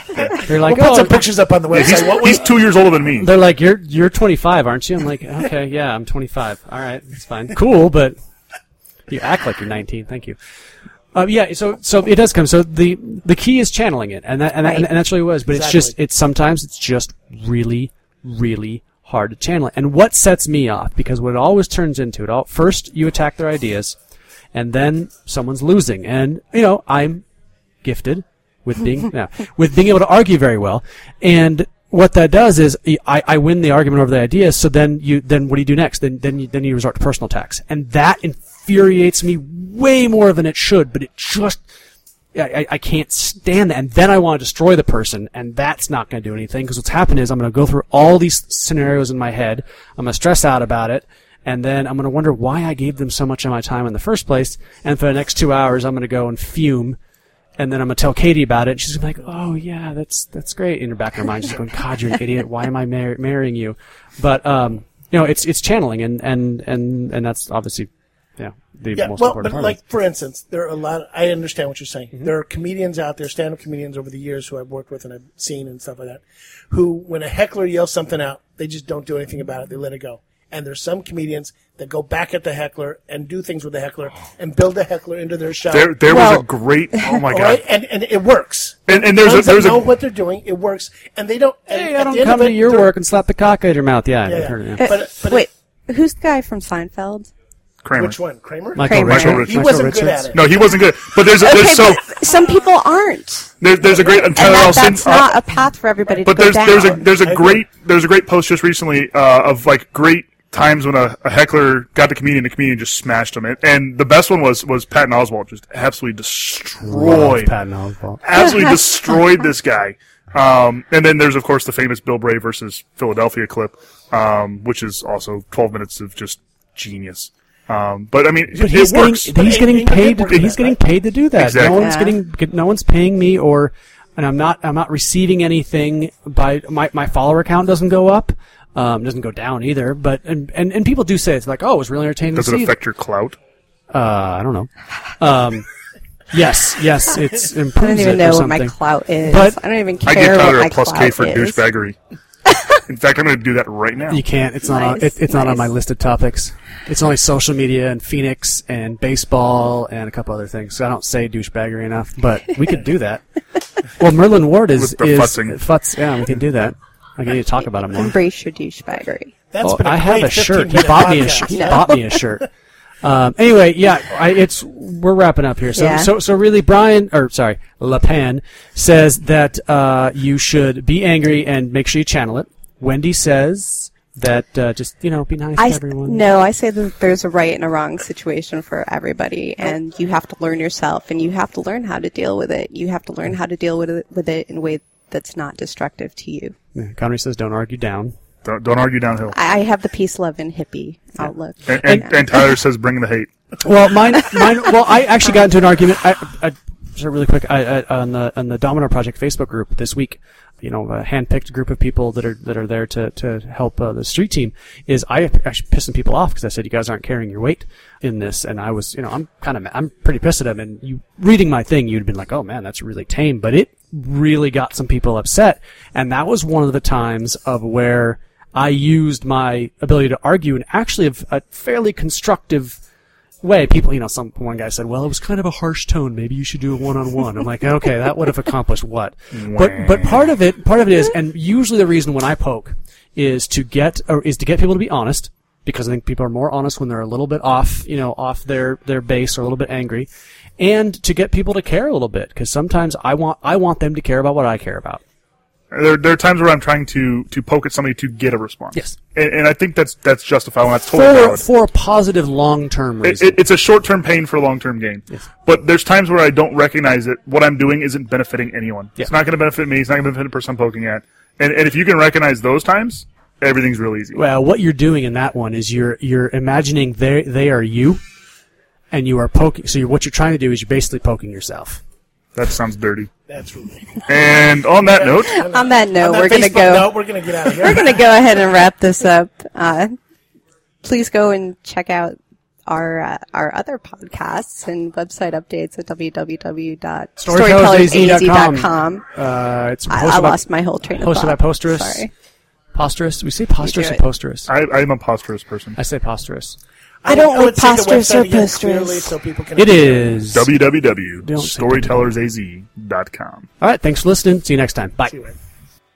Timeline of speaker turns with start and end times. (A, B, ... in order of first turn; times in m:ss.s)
0:00.2-0:02.4 A
0:00.2-0:01.3 B
0:01.7-0:03.3 C
0:03.2-0:08.2 B
0:09.1-0:10.4 B
0:11.1-0:24.0 B
0:15.5-0:15.9 A
0:24.5-0:27.2 B
0:27.8-0:41.6 B
0:42.4-0:57.0 B
0:57.6-1:09.8 B
1:09.0-1:26.0 A
1:25.7-1:27.6 C
1:26.1-1:27.2 D
1:27.1-1:32.9 A
1:28.9-1:29.9 C
1:31.7-1:34.9 B
1:34.2-1:35.5 A
1:34.8-1:37.3 D
1:37.8-1:38.2 C
1:38.0-1:40.4 A
1:38.8-1:40.3 B
1:38.8-1:39.4 D
1:39.0-1:39.7 C
1:40.3-1:42.0 C
1:41.4-1:43.5 D
1:43.6-1:45.4 C
1:43.8-1:44.6 A
1:44.4-1:47.0 D
1:46.2-1:57.5 C
1:47.2-1:47.6 A
1:56.8-1:58.2 B
1:58.2-2:09.3 C
2:08.5-2:22.7 B
2:09.2-2:10.8 A
2:11.4-2:11.9 C
2:11.8-2:12.2 D
2:22.4-2:23.4 C
2:23.9-2:25.7 B
2:26.3-2:29.6 B
2:27.8-2:31.6 D
2:30.0-2:32.0 C
2:32.9-2:34.2 C
2:34.1-2:43.2 B
2:34.6-2:35.7 D
2:43.8-2:48.1 B
2:44.8-2:45.6 C
2:47.9-2:49.3 D
2:49.5-2:51.9 A
2:49.6-2:52.5 B
2:51.5-2:51.9 D
2:53.0-3:06.2 B
2:55.7-2:56.1 D
3:05.6-3:16.6 D
3:16.8-3:18.2 B
3:18.4-3:19.4 C
3:19.3-3:21.8 D
3:21.7-3:23.3 C
3:23.6-3:52.8 B
3:53.4-4:10.1 B
3:59.3-4:00.3 C
4:10.6-4:15.0 B
4:15.7-4:21.4 C
4:20.9-4:23.4 B
4:23.0-4:34.2 C
4:34.1-4:38.0 B
4:38.9-4:41.8 B
4:42.4-4:43.1 C
4:43.3-4:44.1 A
4:44.1-4:45.4 C
4:44.8-4:48.0 A
4:45.3-4:46.9 D
4:47.4-4:50.0 D
4:50.8-4:59.0 D
4:57.2-5:00.4 B
4:59.9-5:02.1 D
5:00.9-5:02.1 B
5:02.8-5:04.5 B
5:03.6-5:04.0 D
5:04.5-5:05.8 C
5:05.8-5:06.6 B
5:07.0-5:10.3 A
5:07.1-5:09.2 D
5:09.6-5:10.5 B
5:10.3-5:13.5 C
5:11.2-5:12.2 B
5:13.6-5:15.2 B
5:15.1-5:15.3 A